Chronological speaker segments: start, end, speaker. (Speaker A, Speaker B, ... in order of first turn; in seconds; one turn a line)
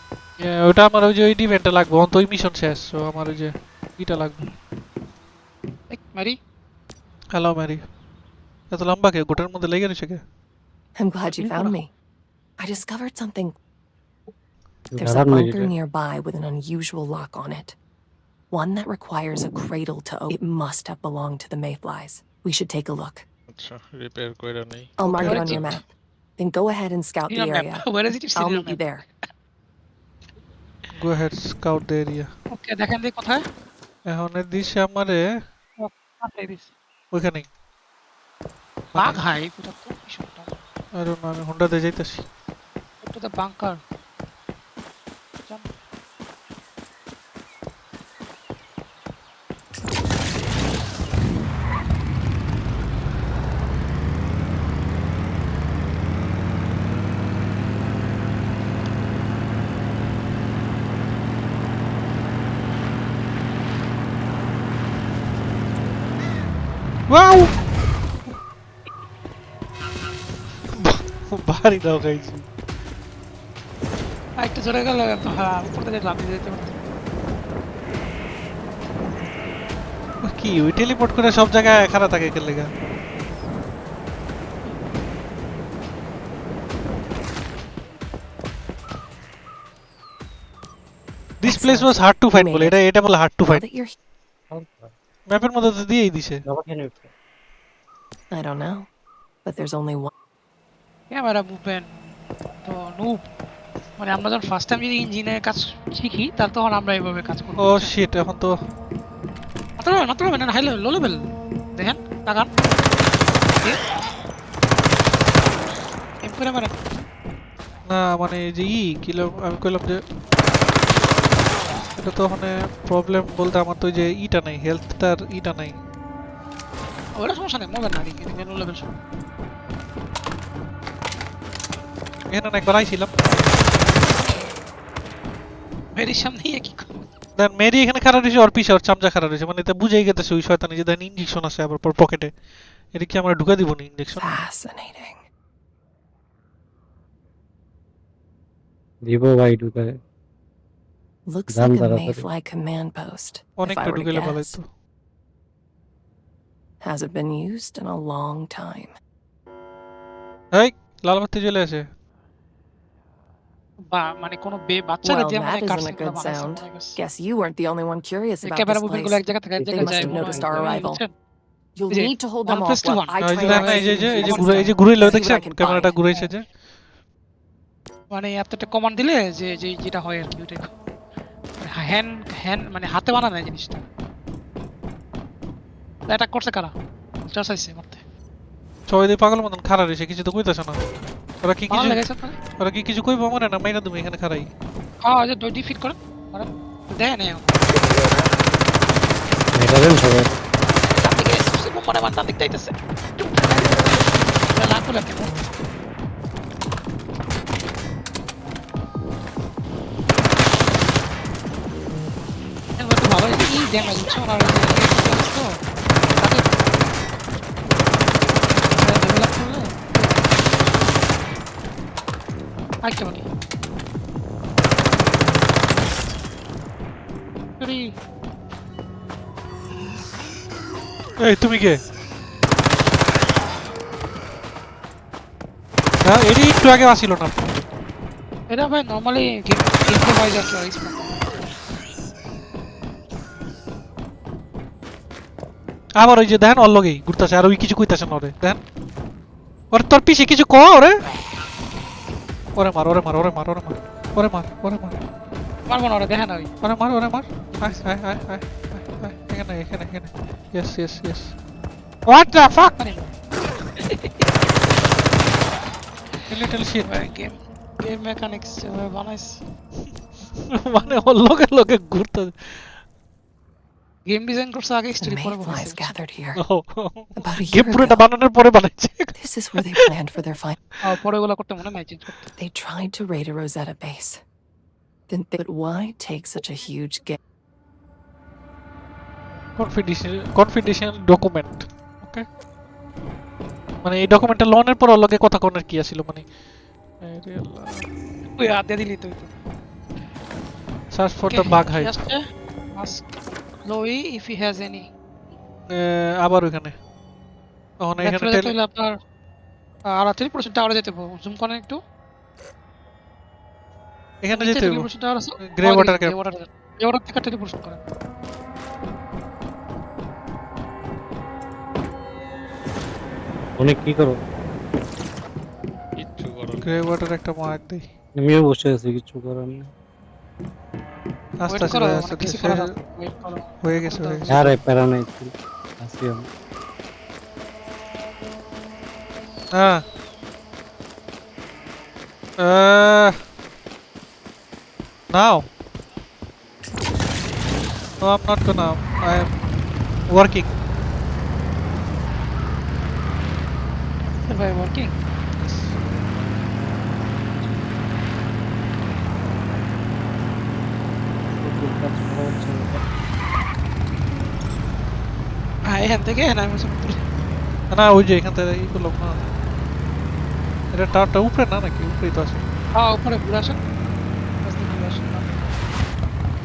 Speaker A: 0.4-4.5
Speaker B: 5.9-6.4
Speaker A: 7.3-7.8
Speaker A: 8.7-10.2
Speaker C: 11.0-11.9
Speaker B: 11.3-11.7
Speaker C: 12.6-13.6
Speaker D: 14.9-15.7
Speaker C: 15.0-17.7
Speaker C: 18.5-23.2
Speaker E: 23.5-25.8
Speaker C: 25.0-29.0
Speaker B: 25.2-25.6
Speaker B: 27.3-28.8
Speaker A: 31.0-32.3
Speaker B: 32.5-33.4
Speaker A: 34.1-35.2
Speaker B: 35.8-36.7
Speaker A: 37.1-37.5
Speaker A: 38.9-39.2
Speaker B: 39.0-40.6
Speaker A: 41.0-42.2
Speaker B: 43.0-43.8
Speaker A: 67.1-67.5
Speaker A: 70.7-72.4
Speaker B: 74.4-76.8
Speaker A: 80.2-82.7
Speaker A: 91.4-93.6
Speaker C: 91.5-92.8
Speaker C: 93.4-93.9
Speaker D: 94.5-94.9
Speaker A: 95.3-96.4
Speaker D: 96.5-97.1
Speaker C: 98.3-98.9
Speaker C: 99.4-100.1
Speaker B: 101.1-101.9
Speaker B: 102.6-103.2
Speaker B: 104.0-107.9
Speaker A: 107.6-108.5
Speaker B: 109.8-111.2
Speaker B: 111.8-112.5
Speaker B: 116.2-116.8
Speaker A: 117.9-120.0
Speaker A: 122.0-125.8
Speaker B: 127.1-128.9
Speaker A: 132.3-133.4
Speaker B: 135.9-137.1
Speaker A: 137.4-142.3
Speaker A: 142.9-144.4
Speaker C: 144.2-145.2
Speaker D: 149.0-150.0
Speaker C: 151.3-154.6
Speaker D: 151.5-152.2
Speaker A: 153.6-154.7
Speaker C: 156.8-158.9
Speaker A: 160.5-161.8
Speaker B: 163.9-167.0
Speaker C: 165.0-169.2
Speaker B: 168.4-171.1
Speaker D: 169.6-170.7
Speaker C: 169.8-171.0
Speaker C: 171.8-176.3
Speaker B: 171.9-174.8
Speaker A: 173.2-176.4
Speaker B: 178.1-180.7
Speaker B: 181.6-183.8
Speaker B: 186.1-186.7
Speaker B: 187.2-188.0
Speaker A: 188.9-192.0
Speaker B: 191.7-192.4
Speaker A: 192.6-194.5
Speaker B: 195.0-197.7
Speaker D: 199.5-200.4
Speaker B: 201.0-202.7
Speaker B: 203.4-203.9
Speaker B: 204.5-205.4
Speaker B: 212.8-215.5
Speaker B: 216.2-216.5
Speaker B: 218.8-220.2
Speaker B: 222.8-223.2
Speaker B: 227.6-227.9
Speaker A: 231.2-231.8
Speaker A: 236.0-237.4
Speaker B: 238.5-241.1
Speaker A: 246.0-248.6
Speaker A: 249.7-251.0
Speaker A: 252.5-255.0
Speaker B: 255.7-256.5
Speaker A: 256.6-261.3
Speaker A: 262.1-262.8
Speaker B: 262.8-263.1
Speaker B: 263.8-264.2
Speaker A: 266.3-266.9
Speaker B: 266.8-269.4
Speaker A: 270.5-272.7
Speaker B: 274.1-275.8
Speaker C: 275.0-276.4
Speaker A: 276.4-279.8
Speaker C: 277.2-278.0
Speaker C: 279.2-280.6
Speaker B: 280.8-282.3
Speaker C: 282.4-284.2
Speaker C: 285.1-287.2
Speaker A: 289.6-292.2
Speaker A: 293.8-296.2
Speaker A: 297.0-297.9
Speaker B: 298.4-299.3
Speaker A: 300.9-301.9
Speaker B: 301.3-302.2
Speaker B: 302.7-303.1
Speaker B: 303.6-304.9
Speaker A: 305.7-306.7
Speaker A: 307.8-308.5
Speaker B: 308.0-308.9
Speaker B: 309.9-311.8
Speaker A: 314.2-314.9
Speaker B: 314.3-317.8
Speaker A: 315.4-316.1
Speaker D: 323.6-324.2
Speaker E: 326.0-326.8
Speaker A: 326.6-327.8
Speaker D: 328.2-329.7
Speaker A: 331.4-332.7
Speaker B: 331.5-334.5
Speaker A: 333.6-334.5
Speaker D: 334.3-336.2
Speaker A: 339.6-339.8
Speaker A: 342.4-343.2
Speaker A: 345.1-345.5
Speaker A: 348.0-349.3
Speaker A: 350.1-350.5
Speaker B: 354.3-354.9
Speaker A: 355.4-355.7
Speaker D: 361.3-362.8
Speaker B: 365.7-367.0
Speaker A: 367.7-369.2
Speaker A: 370.7-372.4
Speaker B: 372.8-373.6
Speaker B: 374.4-375.3